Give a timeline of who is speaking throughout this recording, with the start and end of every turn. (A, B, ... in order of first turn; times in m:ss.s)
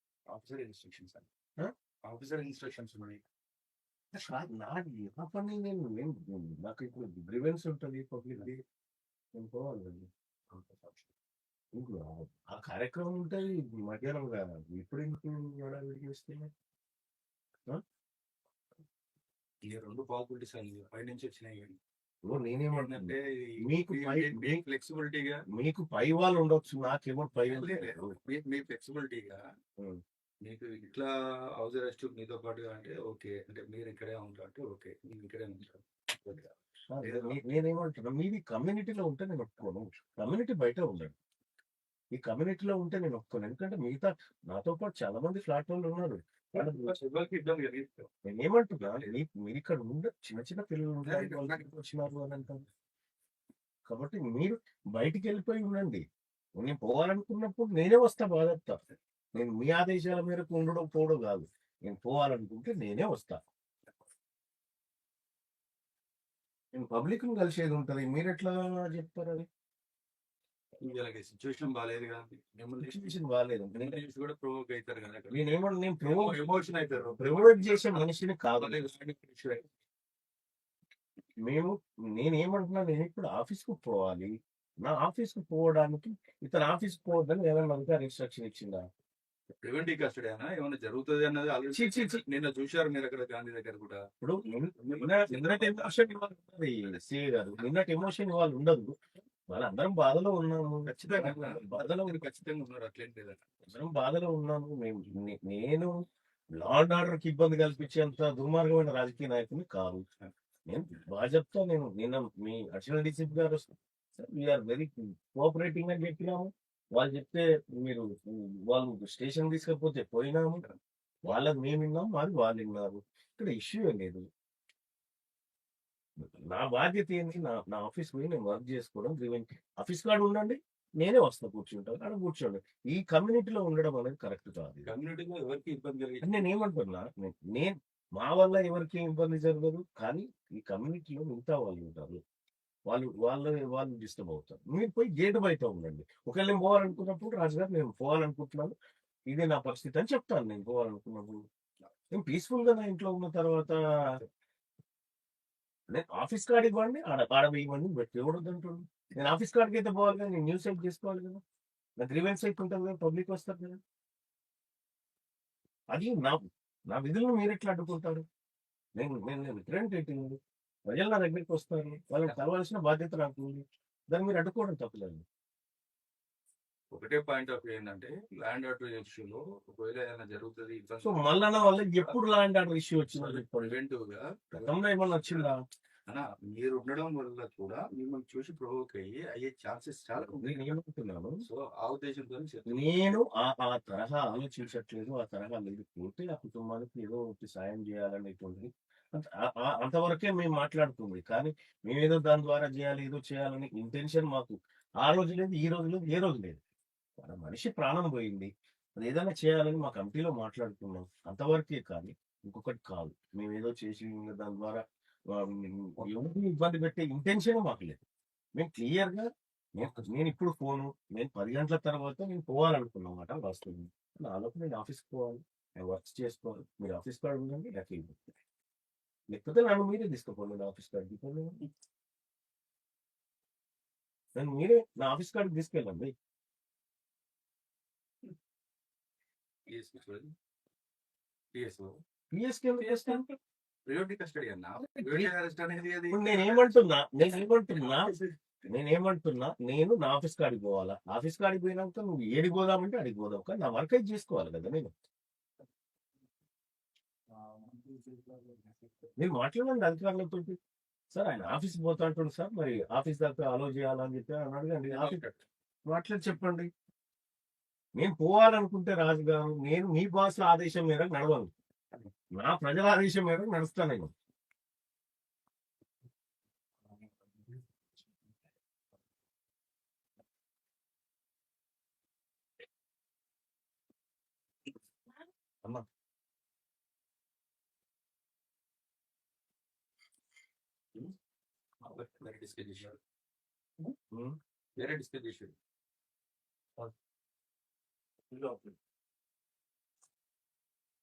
0:00.3-0:01.3 A
0:02.1-0:03.2 A
0:04.1-0:08.6 B
0:09.3-0:10.1 B
0:10.5-0:11.1 A
0:11.7-0:16.5 B
0:19.6-0:21.8 A
0:22.3-0:24.6 B
0:22.7-0:25.4 A
0:25.5-0:28.1 B
0:27.4-0:29.4 A
0:30.4-0:37.4 A
0:36.9-0:41.1 B
0:42.1-0:47.0 B
0:46.5-0:48.1 A
0:48.2-0:52.6 B
0:48.8-0:49.2 A
0:51.0-0:51.7 A
0:53.9-0:56.0 B
0:56.6-0:58.8 B
0:59.3-1:03.4 B
1:06.7-1:09.5 B
1:10.8-1:13.1 A
1:12.8-1:14.0 B
1:13.8-1:19.7 A
1:15.3-1:16.4 B
1:17.2-1:18.8 B
1:21.4-1:24.3 B
1:24.8-1:28.8 B
1:29.6-1:34.0 A
1:31.7-1:32.2 B
1:34.2-1:38.9 B
1:34.8-1:36.0 A
1:39.5-1:42.2 B
1:40.8-1:43.4 A
1:43.6-1:45.9 B
1:46.6-1:50.0 B
1:50.7-2:00.6 B
2:01.2-2:04.2 B
2:06.2-2:14.9 B
2:14.8-2:16.4 A
2:16.2-2:22.2 B
2:22.9-2:28.7 B
2:29.3-2:31.4 B
2:32.1-2:34.2 B
2:35.9-2:41.4 B
2:42.0-2:43.8 B
2:45.9-2:48.2 B
2:49.0-2:55.2 B
2:56.9-3:01.3 A
3:01.0-3:03.8 B
3:01.8-3:02.2 A
3:03.1-3:05.5 A
3:04.6-3:05.6 B
3:06.1-3:10.7 A
3:10.2-3:11.4 B
3:11.4-3:12.9 A
3:12.7-3:26.6 B
3:27.2-3:38.0 B
3:38.6-3:48.2 B
3:49.3-3:51.6 B
3:54.4-3:56.1 B
3:59.7-4:00.3 A
4:01.5-4:02.0 A
4:02.3-4:03.3 B
4:02.8-4:03.2 A
4:03.9-4:06.8 A
4:04.8-4:05.3 B
4:06.1-4:14.9 B
4:07.7-4:08.3 A
4:17.7-4:18.6 A
4:19.2-4:20.6 B
4:21.1-4:25.2 B
4:24.8-4:25.4 A
4:25.9-4:26.7 B
4:28.0-4:31.5 B
4:32.4-4:34.1 B
4:51.8-4:53.0 A
4:54.1-4:54.4 B
4:54.8-4:55.5 A
4:58.3-4:58.7 B